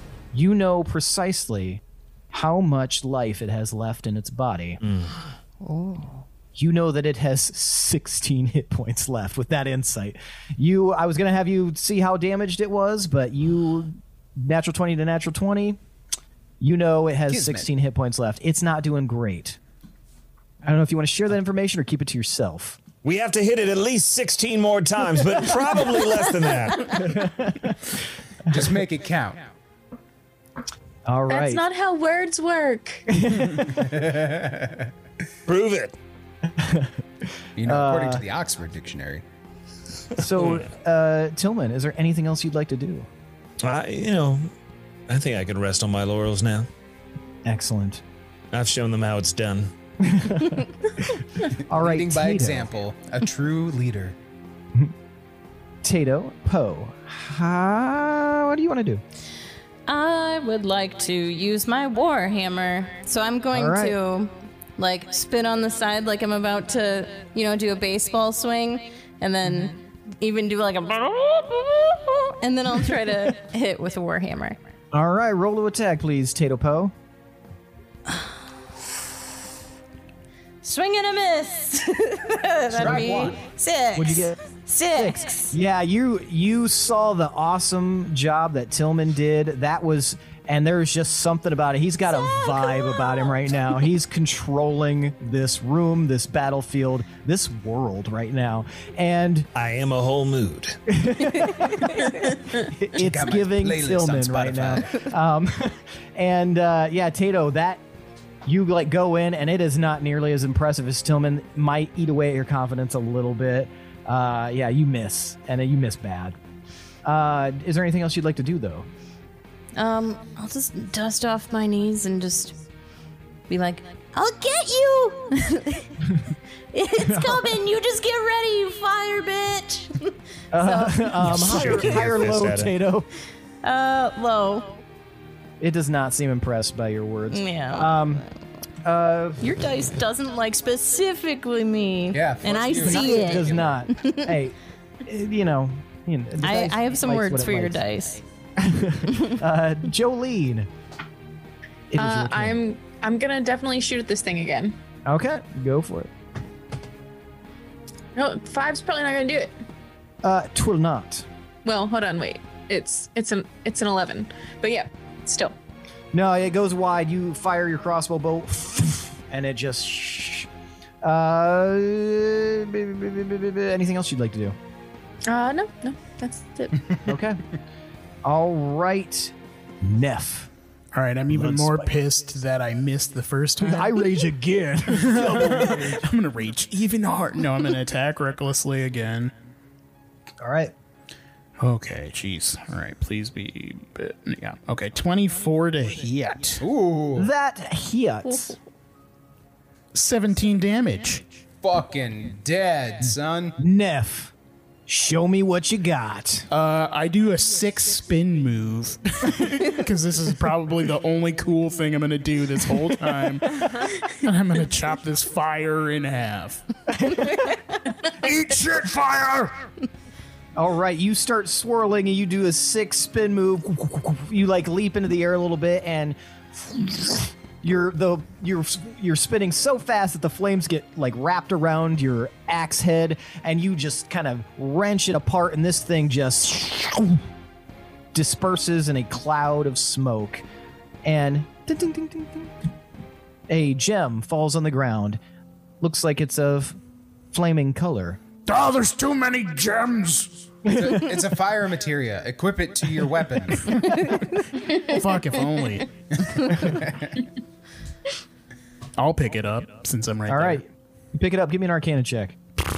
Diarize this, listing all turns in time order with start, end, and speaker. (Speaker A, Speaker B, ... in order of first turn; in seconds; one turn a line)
Speaker A: 0.3-4.8
Speaker B: 4.8-5.3
Speaker A: 6.5-15.8
Speaker A: 16.6-19.6
Speaker C: 17.3-17.7
Speaker A: 20.6-22.8
Speaker B: 23.0-27.2
Speaker A: 27.0-27.8
Speaker C: 28.5-29.5
Speaker A: 31.1-31.6
Speaker D: 31.3-33.1
Speaker A: 33.1-34.0
Speaker C: 33.6-34.9
Speaker B: 35.5-35.9
Speaker A: 36.5-37.0
Speaker C: 37.6-39.2
Speaker A: 37.6-38.2
Speaker A: 40.1-43.1
Speaker B: 40.4-40.7
Speaker B: 43.6-44.5
Speaker B: 45.1-46.7
Speaker A: 47.4-48.0
Speaker B: 48.5-49.7
Speaker A: 50.0-52.7
Speaker C: 51.7-54.1
Speaker A: 55.8-59.0
Speaker E: 59.9-74.6
Speaker A: 63.5-64.0
Speaker A: 74.9-76.9
Speaker E: 80.6-85.5
Speaker C: 82.7-83.4
Speaker A: 82.7-83.4
Speaker A: 83.9-84.4
Speaker A: 84.9-99.5
Speaker B: 99.5-100.9
Speaker A: 100.9-107.8
Speaker C: 102.9-105.0
Speaker A: 108.4-116.4
Speaker A: 117.0-118.9
Speaker E: 119.7-122.6
Speaker E: 123.5-126.0
Speaker E: 126.7-132.1
Speaker A: 127.0-127.5
Speaker A: 130.5-133.1
Speaker B: 131.2-132.7
Speaker E: 133.6-134.8
Speaker A: 135.6-138.2
Speaker E: 137.3-138.2
Speaker A: 138.8-139.5
Speaker E: 139.4-144.3
Speaker C: 142.1-143.8
Speaker A: 142.8-147.8
Speaker E: 146.4-148.2
Speaker A: 148.6-150.7
Speaker A: 151.9-152.6
Speaker D: 151.9-154.8
Speaker A: 155.1-156.1
Speaker D: 158.2-159.5
Speaker A: 160.2-161.3
Speaker D: 161.6-165.5
Speaker A: 166.1-170.5
Speaker A: 171.0-174.6
Speaker D: 175.3-176.9
Speaker A: 177.1-177.4
Speaker A: 178.2-180.5
Speaker F: 180.9-184.1
Speaker A: 181.3-181.9
Speaker A: 183.6-186.0
Speaker F: 184.8-189.3
Speaker A: 190.4-190.7
Speaker F: 191.6-196.6
Speaker C: 196.6-197.3
Speaker A: 197.1-198.6
Speaker F: 199.9-201.2
Speaker C: 201.6-203.6
Speaker A: 203.6-204.3
Speaker A: 204.9-206.5
Speaker F: 206.5-219.6
Speaker A: 220.5-237.2
Speaker A: 238.1-240.4
Speaker A: 241.0-242.5
Speaker A: 243.5-245.2
Speaker A: 245.8-246.8
Speaker A: 247.3-248.2
Speaker F: 248.4-250.6
Speaker C: 250.7-253.7
Speaker A: 250.7-251.0
Speaker F: 253.7-256.8
Speaker F: 259.0-260.6
Speaker A: 260.3-262.4